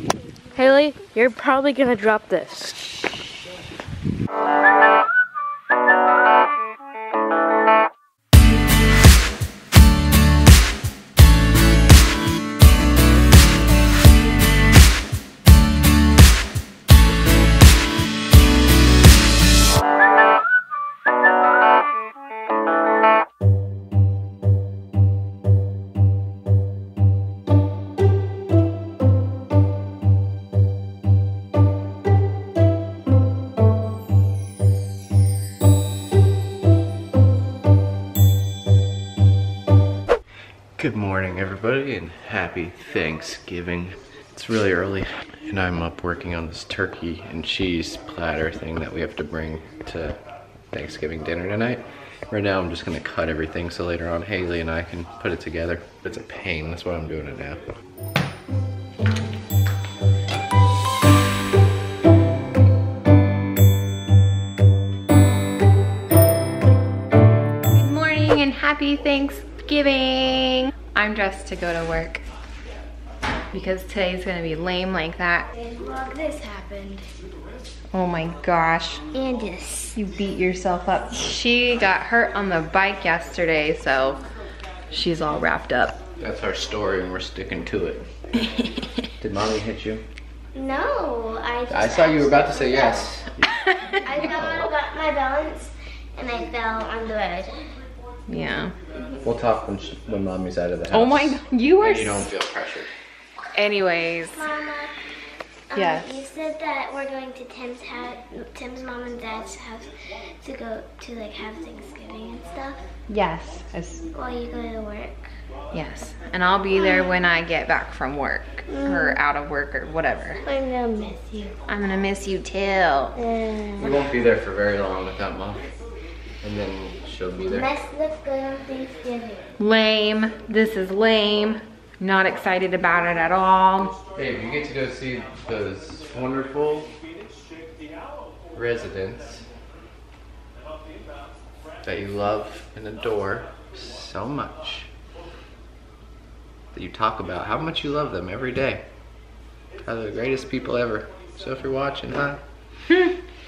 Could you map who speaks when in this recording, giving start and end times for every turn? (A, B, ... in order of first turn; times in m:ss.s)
0:00.6-0:02.7 A
0:40.8-0:50.2 B
0:50.7-0:57.6 B
1:07.7-1:12.2 C
1:13.5-1:15.5 C
1:15.6-1:17.0 D
1:17.9-1:19.0 C
1:19.1-1:20.0 D
1:20.0-1:24.2 C
1:24.9-1:26.0 C
1:26.2-1:28.1 B
1:28.4-1:28.9 C
1:29.2-1:30.0 B
1:30.5-1:33.1 D
1:31.7-1:33.5 B
1:33.7-1:34.0 C
1:34.0-1:37.7 D
1:34.2-1:34.7 B
1:38.3-1:38.7 C
1:39.2-1:42.9 B
1:40.9-1:42.3 C
1:43.6-1:44.5 C
1:44.3-1:45.0 D
1:45.7-1:49.9 D
1:45.7-1:46.3 C
1:50.4-1:52.8 D
1:53.1-1:54.1 C
1:54.1-1:55.3 D
1:55.7-2:00.4 C
1:56.7-1:57.2 D
1:58.7-1:59.2 D
2:00.4-2:01.5 D
2:01.7-2:03.2 C
2:03.2-2:04.1 D
2:03.8-2:05.7 B
2:06.4-2:07.7 B
2:07.4-2:09.5 D
2:09.6-2:13.9 C
2:14.1-2:16.9 B
2:18.5-2:19.4 B
2:21.8-2:24.9 B
2:26.7-2:28.8 B
2:29.8-2:32.4 B
2:32.9-2:33.1 C